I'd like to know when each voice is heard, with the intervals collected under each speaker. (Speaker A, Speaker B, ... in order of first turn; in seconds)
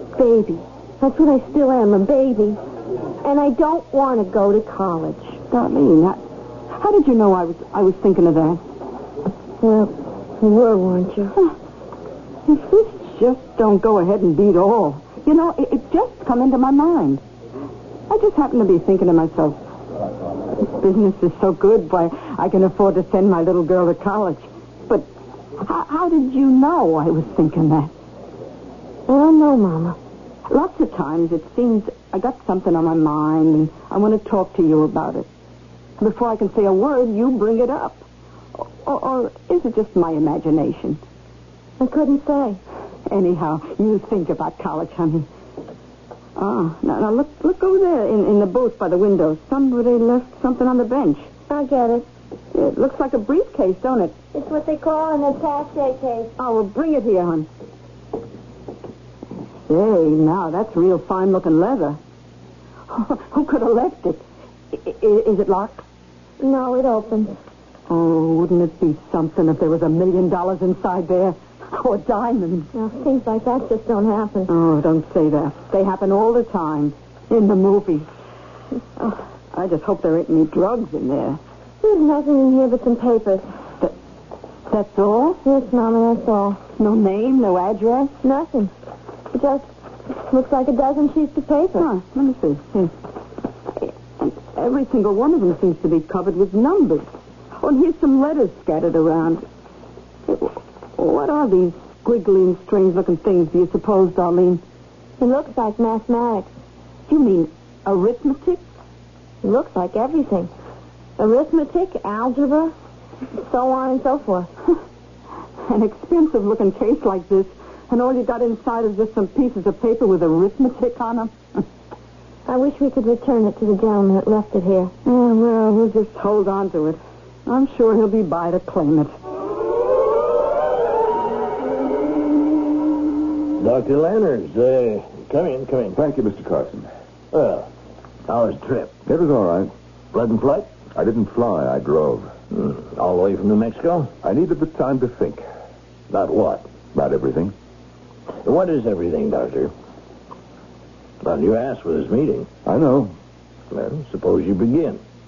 Speaker A: 0.1-2.6, 3.2-5.4, 9.6-11.4, 29.1-30.0, 41.8-42.6, 51.5-52.0, 54.3-56.3, 66.4-67.3, 72.7-74.5, 81.8-83.5, 85.4-86.6, 88.2-88.7, 89.3-91.9, 105.2-106.5, 109.4-110.5, 111.2-112.7, 113.4-114.5, 122.5-124.9
Speaker B: 5.5-6.2, 6.7-8.6, 12.4-17.2, 18.1-19.6, 20.6-25.1, 25.6-27.9, 30.5-35.3, 36.0-38.0, 38.5-41.0, 43.1-45.3, 46.4-51.3, 52.5-54.1, 56.4-57.5, 59.7-62.0, 62.9-65.8, 67.9-72.7, 74.5-78.1, 79.0-81.4, 84.7-85.4, 86.8-88.1, 91.8-92.9, 93.8-97.1, 97.6-99.5, 100.3-104.6, 107.1-108.6, 115.7-121.3, 125.0-129.1
Speaker C: 133.6-136.0, 137.3-137.7, 138.3-138.9, 140.1-140.7, 142.5-144.1, 146.1-146.7, 148.4-149.7, 151.2-152.5, 153.7-155.0
Speaker D: 135.9-136.9, 139.1-139.7, 140.9-142.3, 144.2-145.4, 146.9-147.5, 152.7-153.1